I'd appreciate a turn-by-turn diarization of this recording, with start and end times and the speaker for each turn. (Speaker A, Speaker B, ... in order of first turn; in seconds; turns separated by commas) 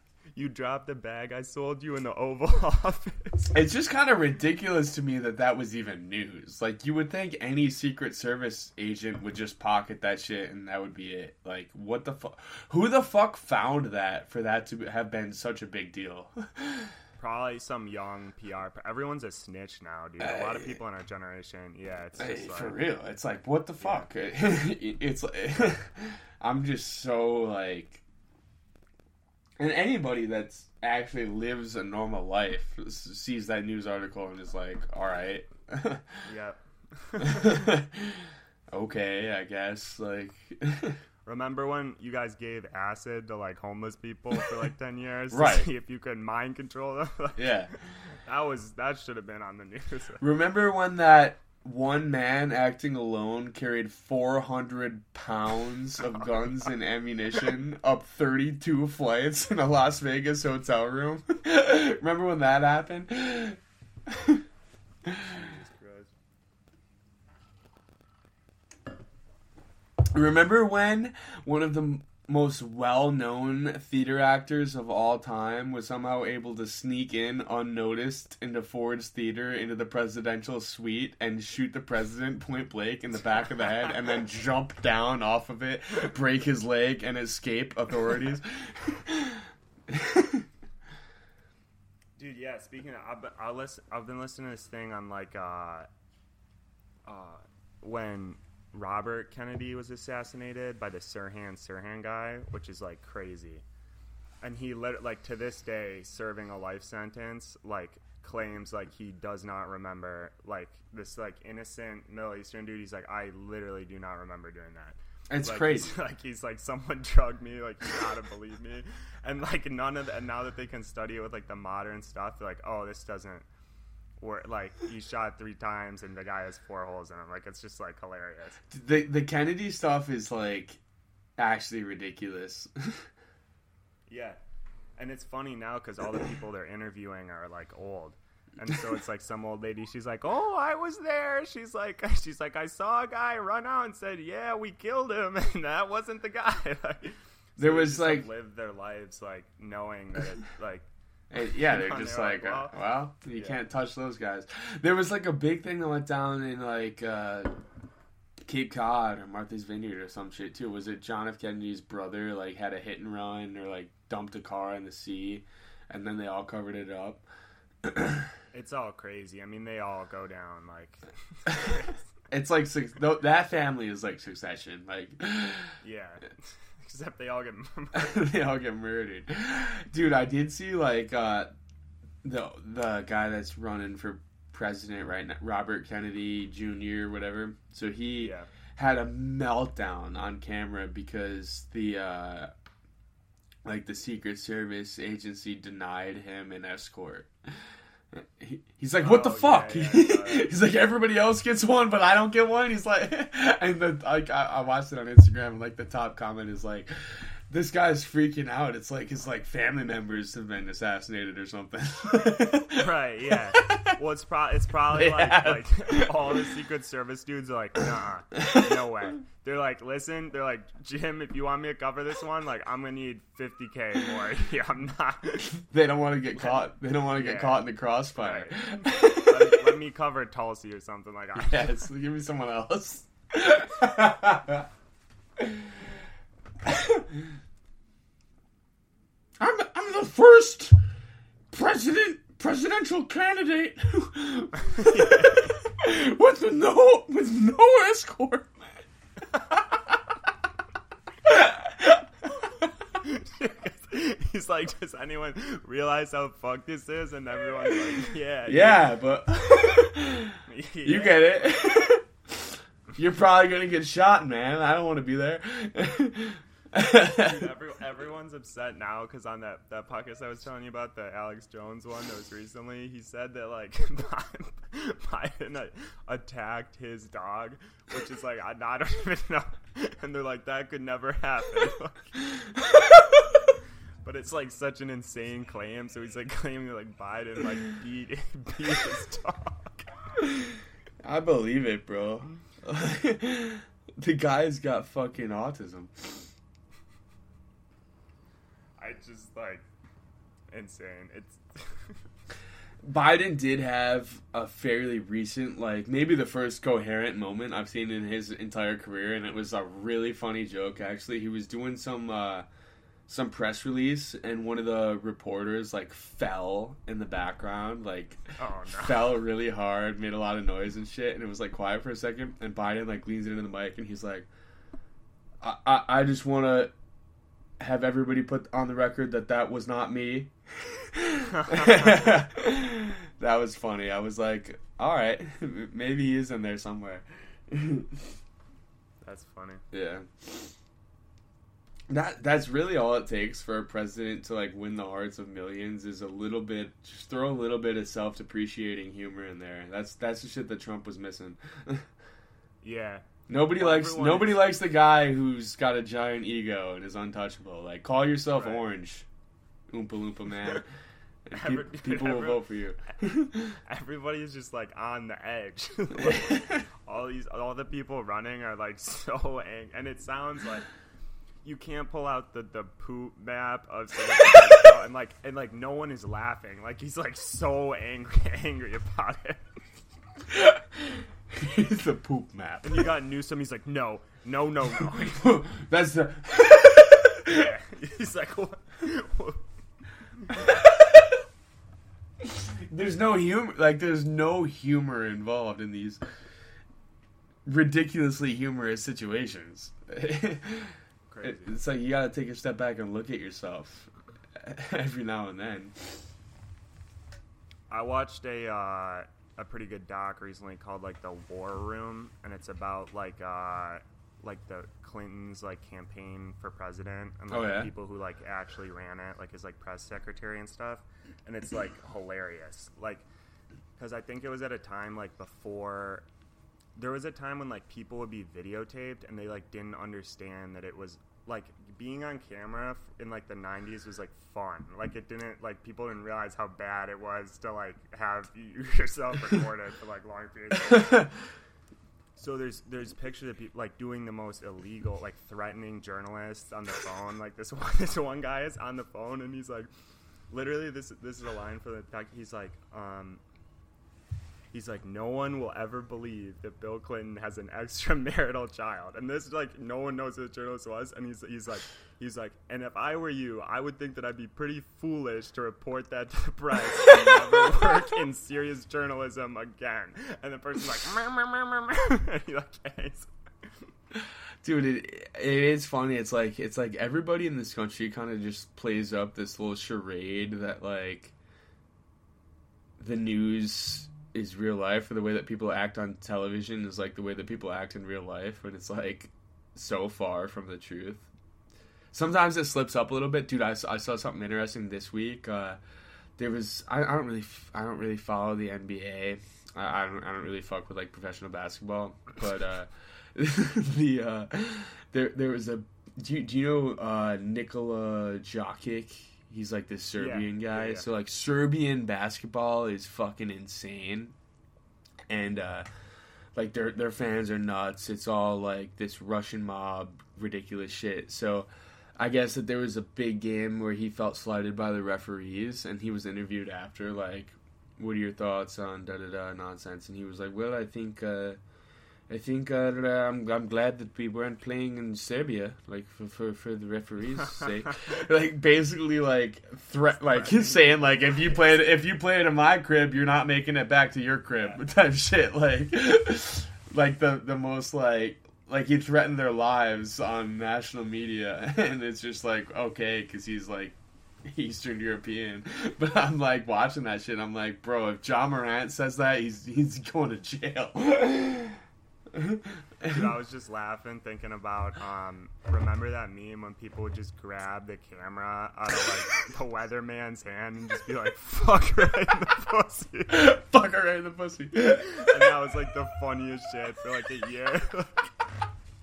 Speaker A: 0.3-3.5, Speaker B: 3.5-16.9, Speaker A: 17.2-22.8, Speaker B: 20.2-20.7, Speaker B: 22.2-28.0, Speaker A: 23.8-24.1, Speaker B: 29.6-36.2, Speaker A: 36.2-37.6, Speaker B: 37.2-41.0, Speaker A: 41.2-47.5, Speaker B: 45.3-45.7, Speaker B: 47.4-47.7, Speaker A: 48.1-50.2, Speaker B: 50.2-64.4, Speaker B: 65.0-65.4, Speaker A: 65.1-66.1, Speaker B: 70.1-90.5, Speaker A: 92.2-95.9, Speaker A: 97.0-103.6, Speaker A: 104.4-123.5, Speaker B: 115.3-115.9, Speaker A: 124.2-128.6, Speaker B: 128.7-130.8, Speaker B: 131.4-133.1, Speaker A: 134.1-134.4, Speaker A: 135.0-150.9, Speaker B: 147.6-148.3, Speaker B: 151.3-157.5, Speaker A: 151.5-152.8, Speaker A: 153.3-153.6, Speaker B: 158.4-167.2, Speaker B: 167.8-168.3, Speaker A: 168.5-172.0, Speaker B: 172.3-175.7, Speaker A: 175.8-178.3, Speaker B: 177.9-181.5, Speaker B: 182.2-192.5, Speaker A: 188.2-188.5, Speaker B: 193.6-197.3, Speaker B: 198.1-206.9, Speaker A: 199.0-200.5, Speaker B: 207.5-213.9, Speaker A: 212.7-225.5, Speaker B: 214.9-216.5, Speaker B: 218.4-218.7, Speaker B: 225.6-229.7, Speaker A: 227.2-231.8, Speaker B: 231.3-234.7, Speaker B: 235.4-235.8, Speaker B: 236.6-237.2, Speaker B: 239.4-240.7, Speaker B: 241.5-248.8, Speaker A: 244.6-245.6, Speaker B: 251.2-252.0, Speaker A: 253.0-258.9, Speaker B: 258.4-267.5, Speaker A: 260.4-261.6, Speaker A: 267.2-282.2, Speaker A: 284.0-289.9, Speaker B: 290.2-296.3, Speaker A: 298.8-299.6, Speaker A: 300.5-301.9, Speaker B: 302.8-312.4, Speaker B: 313.1-324.3, Speaker A: 318.4-319.1, Speaker B: 325.4-326.7, Speaker B: 327.6-338.1, Speaker A: 331.2-332.0, Speaker A: 339.0-339.6, Speaker B: 339.7-340.5, Speaker B: 341.9-351.9, Speaker A: 352.6-353.1, Speaker B: 353.3-359.1, Speaker A: 353.6-354.6, Speaker A: 358.3-358.6, Speaker B: 359.7-360.6, Speaker B: 361.2-363.6, Speaker A: 361.3-362.4, Speaker A: 363.7-370.6, Speaker B: 366.0-366.6, Speaker A: 371.4-379.5, Speaker B: 380.3-382.9, Speaker A: 382.6-385.3, Speaker B: 384.9-387.5, Speaker A: 387.3-389.4, Speaker A: 390.2-390.5, Speaker B: 390.3-391.1, Speaker B: 392.2-396.0, Speaker B: 397.4-406.1, Speaker A: 401.1-401.6, Speaker A: 407.7-423.0, Speaker B: 417.3-417.7, Speaker A: 423.8-426.0, Speaker A: 426.8-441.1, Speaker A: 442.1-449.7, Speaker A: 450.3-453.2, Speaker A: 454.5-473.5, Speaker B: 473.9-481.1, Speaker B: 482.8-491.1, Speaker B: 491.9-495.6, Speaker B: 496.2-514.1, Speaker A: 510.0-510.9, Speaker B: 515.1-515.6, Speaker B: 516.3-531.4, Speaker B: 532.1-561.6, Speaker A: 540.0-541.7, Speaker B: 562.1-563.1, Speaker A: 562.9-573.2, Speaker B: 573.1-575.2, Speaker A: 574.9-578.1